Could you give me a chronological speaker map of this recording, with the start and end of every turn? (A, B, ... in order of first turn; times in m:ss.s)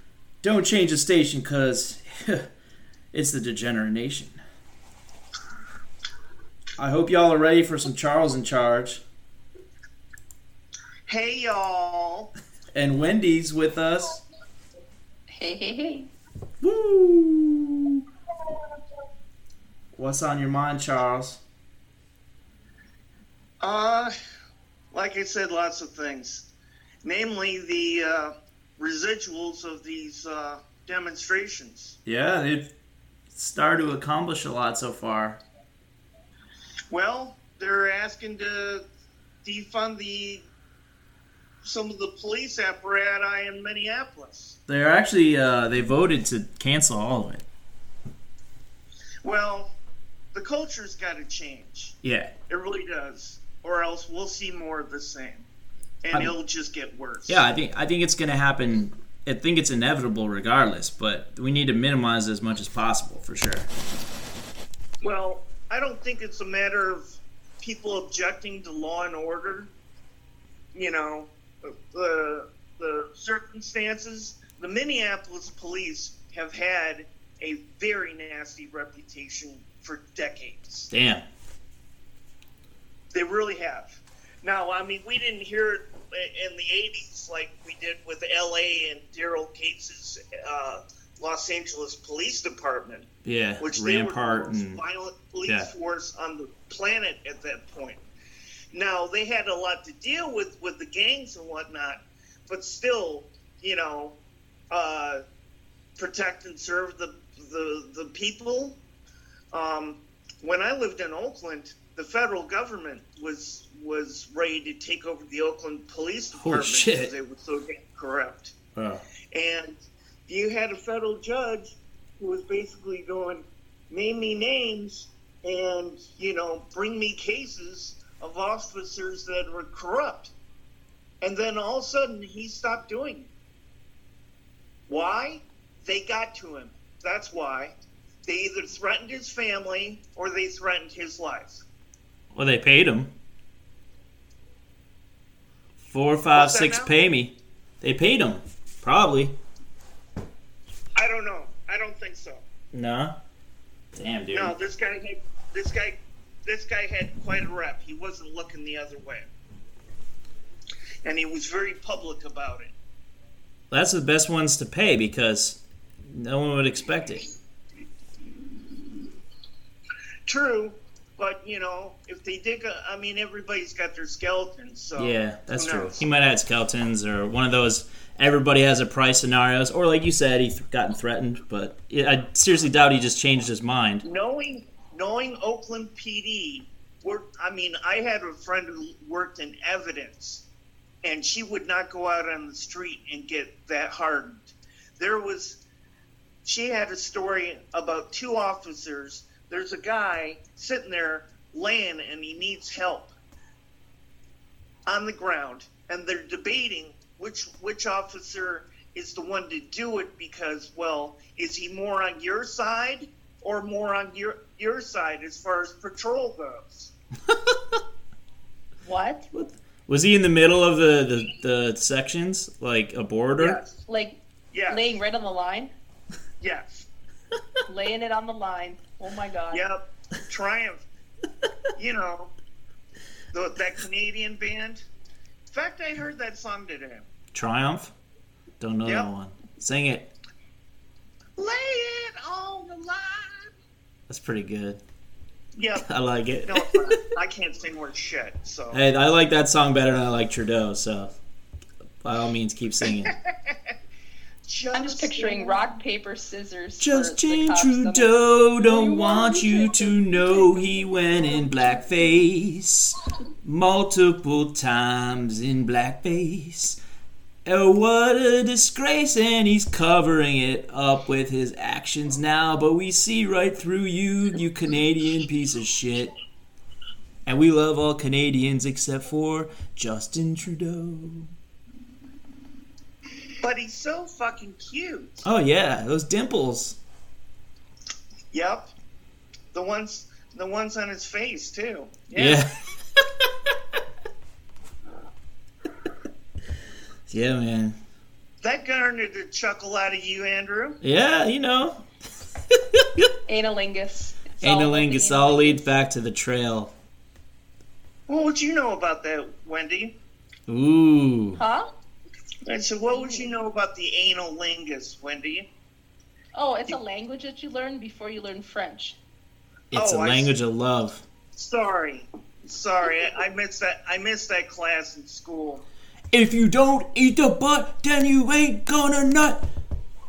0:00.4-0:02.5 A
0:03.1-0:04.4 A
0:06.8-0:09.0 A
0:11.1-0:12.3 B
0:12.7-0:14.2 A
0:15.3-0:16.1 C
0:16.6-0:18.0 A
0:20.0-0:21.4 A
0:23.6-0:24.1 B
0:24.9-0:26.5 B
0:27.0-0:32.0 B
0:32.1-0:32.7 A
0:33.3-0:35.4 A
0:36.9-0:38.8 B
0:39.4-0:40.5 B
0:41.6-0:44.6 B
0:44.7-0:47.4 A
0:49.2-0:49.7 B
0:50.3-0:52.0 B
0:52.0-0:52.3 A
0:52.5-0:55.5 B
0:56.0-0:57.4 B
0:57.3-1:03.7 A
1:05.0-1:07.1 B
1:07.6-1:09.7 B
1:10.7-1:20.9 B
1:20.9-1:21.2 A
1:23.1-1:33.1 B
1:33.2-1:34.8 A
1:33.6-1:38.0 B
1:38.7-1:44.2 B
1:44.7-1:45.2 B
1:46.0-1:48.8 B
1:49.5-1:58.6 B
1:56.4-1:57.1 A
1:58.8-1:59.0 A
1:59.3-1:59.8 B
2:00.3-2:10.3 B
2:11.2-2:13.3 B
2:14.9-2:21.6 B
2:22.3-2:23.1 A
2:25.9-2:29.4 A
2:26.4-2:26.9 B
2:31.0-2:32.4 B
2:32.7-2:33.2 A
2:34.0-2:34.5 A
2:34.3-2:39.3 B
2:41.0-2:42.7 B
2:43.7-2:47.3 A
2:50.3-2:56.0 B
2:55.0-3:04.0 A
3:04.0-3:10.5 B
3:11.0-3:15.6 B
3:16.4-3:23.1 B
3:24.9-3:36.9 B
3:37.3-3:37.8 A
3:38.8-3:39.3 C
3:39.3-3:43.6 A
3:43.4-3:43.8 B
3:43.9-3:44.2 C
3:44.5-3:45.0 B
3:44.7-3:45.7 C
3:46.4-3:46.9 B
3:47.7-3:49.6 C
3:49.5-3:50.8 B
3:51.8-3:52.3 B
3:53.3-3:54.8 B
3:55.5-3:57.1 B
3:57.3-3:57.9 A
3:58.6-4:00.1 A
4:01.4-4:03.5 B
4:04.1-4:04.8 A
4:05.6-4:05.9 B
4:05.9-4:07.0 A
4:06.5-4:08.8 B
4:08.7-4:11.1 A
4:12.0-4:13.2 A
4:14.4-4:15.6 B
4:14.7-4:20.7 C
4:16.8-4:26.8 A
4:27.5-4:36.1 A
4:37.3-4:41.3 A
4:43.4-4:45.2 B
4:45.2-4:46.8 A
4:48.3-4:48.7 B
4:49.5-4:52.4 B
4:52.2-4:53.3 A
4:57.1-4:57.8 A
4:58.4-5:00.8 B
5:00.8-5:01.8 A
5:02.5-5:03.1 A
5:03.3-5:05.7 C
5:04.4-5:06.7 A
5:08.1-5:09.9 B
5:10.5-5:11.4 A
5:11.4-5:11.7 C
5:12.5-5:15.5 B
5:12.9-5:13.3 C
5:16.3-5:19.0 C
5:19.7-5:20.3 B
5:19.7-5:21.0 A
5:21.3-5:25.6 B
5:26.1-5:29.4 A